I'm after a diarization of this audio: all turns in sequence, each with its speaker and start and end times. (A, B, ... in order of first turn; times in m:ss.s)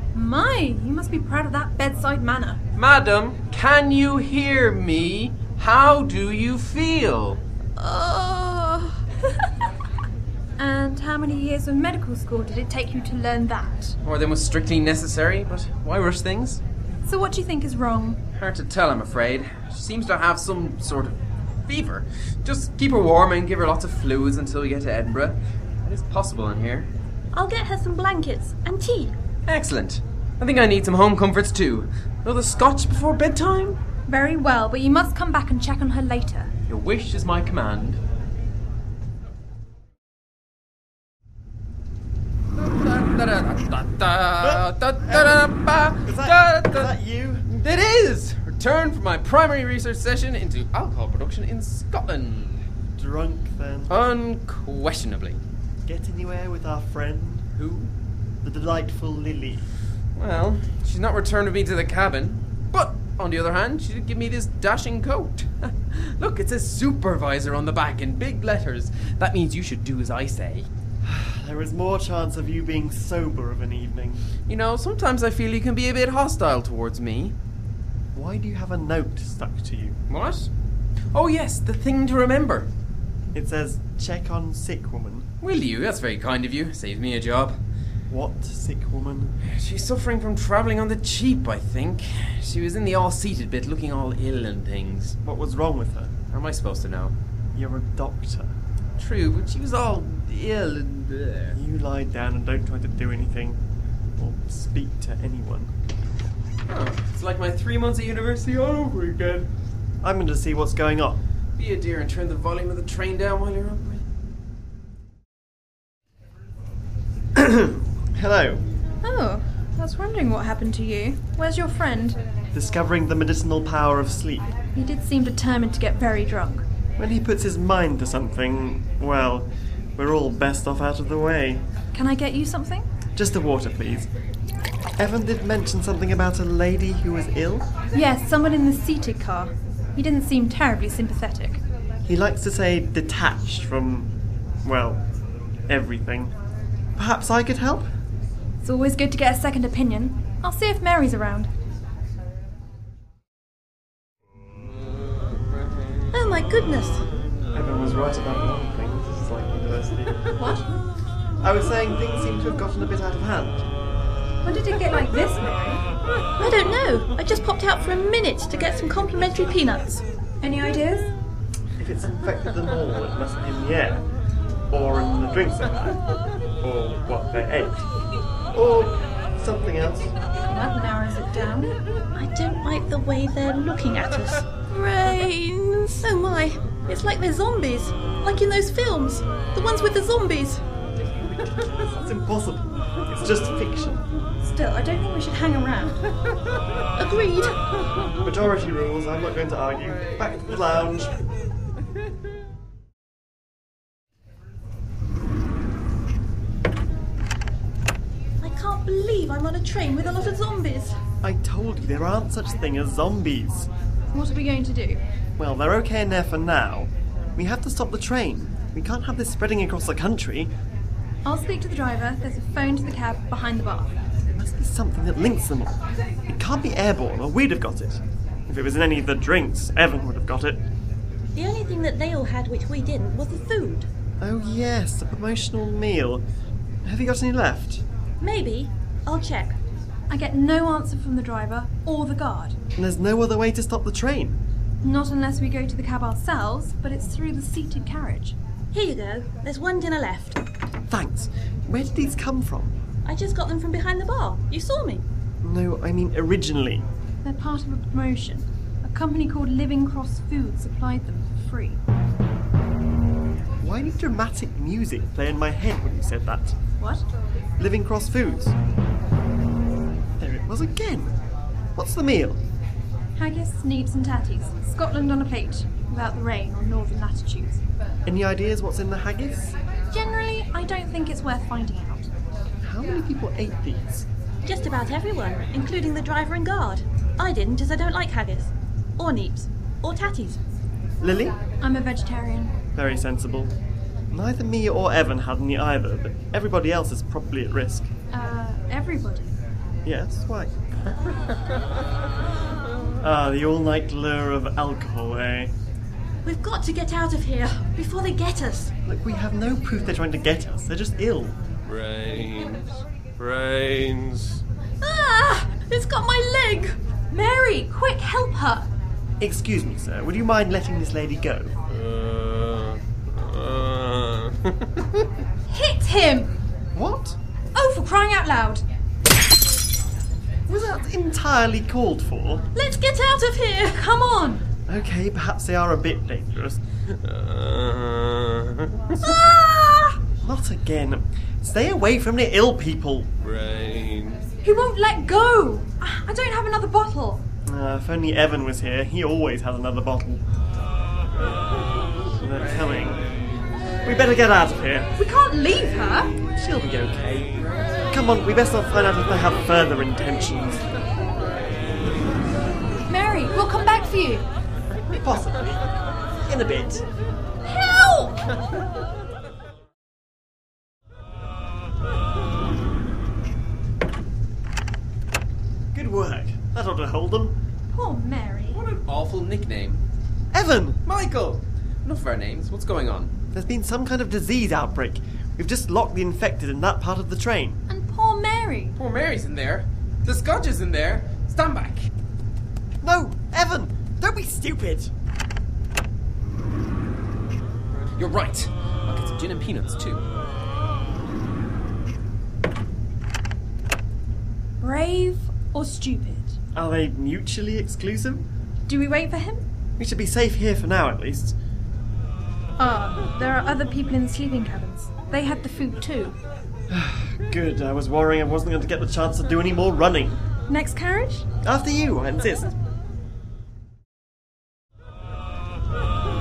0:00.1-0:02.6 A
0:02.8-0:07.4 B
0:07.8-0:09.0 A
0:10.6-0:14.0 A
0:14.0-0:16.6 B
0:17.0-0:18.2 A
0:18.4-0:26.9 B
0:27.3-0:29.2 C
0:29.5-0:33.8 B
0:34.1-0:36.5 A
0:36.7-0:38.0 B
0:42.5-0:46.9 B
0:44.4-0:45.4 D
0:46.0-0:47.5 D
0:47.4-0:52.6 B
0:53.0-0:53.9 D
0:53.9-0:55.4 B
0:55.8-0:57.5 D
0:57.6-0:57.9 B
0:58.4-0:59.6 D
1:00.2-1:10.7 B
1:11.0-1:14.2 D
1:14.4-1:17.4 B
1:18.1-1:20.0 D
1:20.1-1:20.5 B
1:21.1-1:22.7 B
1:23.3-1:25.3 D
1:25.4-1:27.6 B
1:28.1-1:29.4 D
1:29.4-1:35.2 B
1:35.2-1:36.1 D
1:36.3-1:37.2 B
1:37.5-1:38.5 D
1:39.0-1:41.6 B
1:41.5-1:43.6 D
1:44.2-1:45.7 D
1:46.7-1:49.5 B
1:50.0-1:51.2 D
1:51.6-1:54.0 B
1:57.3-1:58.7 D
1:59.0-2:02.2 A
2:02.5-2:04.5 D
2:04.7-2:06.6 A
2:07.0-2:11.6 D
2:11.9-2:12.8 A
2:13.2-2:14.1 D
2:15.0-2:17.7 D
2:17.9-2:21.6 A
2:22.0-2:24.1 D
2:24.6-2:25.0 D
2:25.7-2:26.3 D
2:27.0-2:27.9 D
2:28.6-2:31.5 A
2:36.1-2:37.0 C
2:37.5-2:40.5 D
2:40.4-2:40.6 A
2:41.4-2:43.6 D
2:44.4-2:45.8 A
2:46.4-2:50.0 C
2:50.4-2:51.1 A
2:51.8-2:54.0 D
2:54.7-2:56.0 D
2:56.6-2:57.8 D
2:58.5-3:00.1 D
3:00.4-3:01.8 A
3:02.2-3:10.6 C
3:11.6-3:14.0 D
3:14.4-3:16.0 A
3:17.0-3:17.6 C
3:18.2-3:21.2 D
3:28.4-3:31.0 C
3:31.2-3:33.7 D
3:34.1-3:35.0 A
3:35.4-3:40.5 D
3:41.2-3:43.9 A
3:44.3-3:50.6 D
3:51.3-3:53.9 C
3:54.2-3:56.2 D
3:56.8-3:57.8 D
3:58.2-3:59.6 C
4:00.1-4:02.6 A
4:02.8-4:04.4 D
4:04.8-4:08.4 A
4:08.7-4:10.4 C
4:10.9-4:12.8 D
4:13.0-4:15.0 C
4:15.4-4:16.8 D
4:17.2-4:21.8 A
4:23.6-4:26.6 D
4:27.6-4:28.5 D
4:30.2-4:31.1 D
4:31.8-4:32.4 D
4:33.2-4:37.6 A
4:38.0-4:39.6 D
4:39.9-4:42.1 A
4:42.6-4:44.0 D
4:44.4-4:50.4 C
4:51.0-4:51.4 D
4:51.6-4:52.5 A
4:52.8-4:53.5 D
4:54.1-4:57.9 D
4:58.1-4:59.3 A
4:59.8-5:01.0 D
5:03.0-5:05.5 D
5:06.2-5:08.7 C
5:08.8-5:11.4 D
5:11.7-5:14.4 E
5:14.8-5:16.8 C
5:17.1-5:18.7 A
5:19.2-5:21.5 D
5:21.8-5:24.3 E
5:25.5-5:26.4 A
5:26.7-5:27.2 D
5:27.5-5:28.6 A
5:30.5-5:32.4 D
5:32.5-5:33.8 C
5:33.7-5:34.4 A
5:34.7-5:36.6 D
5:37.1-5:38.3 E
5:38.6-5:39.1 B
5:39.0-5:39.9 C
5:40.1-5:43.1 D
5:43.2-5:44.2 E
5:44.4-5:47.2 A
5:47.5-5:50.2 D
5:52.1-5:53.0 D
5:53.8-5:54.9 D
5:55.0-5:56.2 A
5:56.3-5:57.4 D
5:57.9-6:00.7 D
6:02.8-6:04.3 A
6:04.9-6:05.6 D
6:06.2-6:06.8 D
6:07.4-6:08.4 A
6:15.7-6:17.4 D
6:17.7-6:18.6 A
6:18.5-6:19.8 B
6:20.3-6:20.8 D
6:20.8-6:23.1 B
6:23.3-6:27.6 D
6:27.7-6:28.7 A
6:28.8-6:31.9 B
6:32.8-6:34.9 D
6:37.9-6:40.0 B
6:44.6-6:46.4 A
6:46.5-6:48.2 D
6:48.7-6:49.4 A
6:49.8-6:51.3 D
6:52.6-6:56.2 A
6:56.7-7:00.2 D
7:00.5-7:01.2 A
7:01.4-7:02.5 D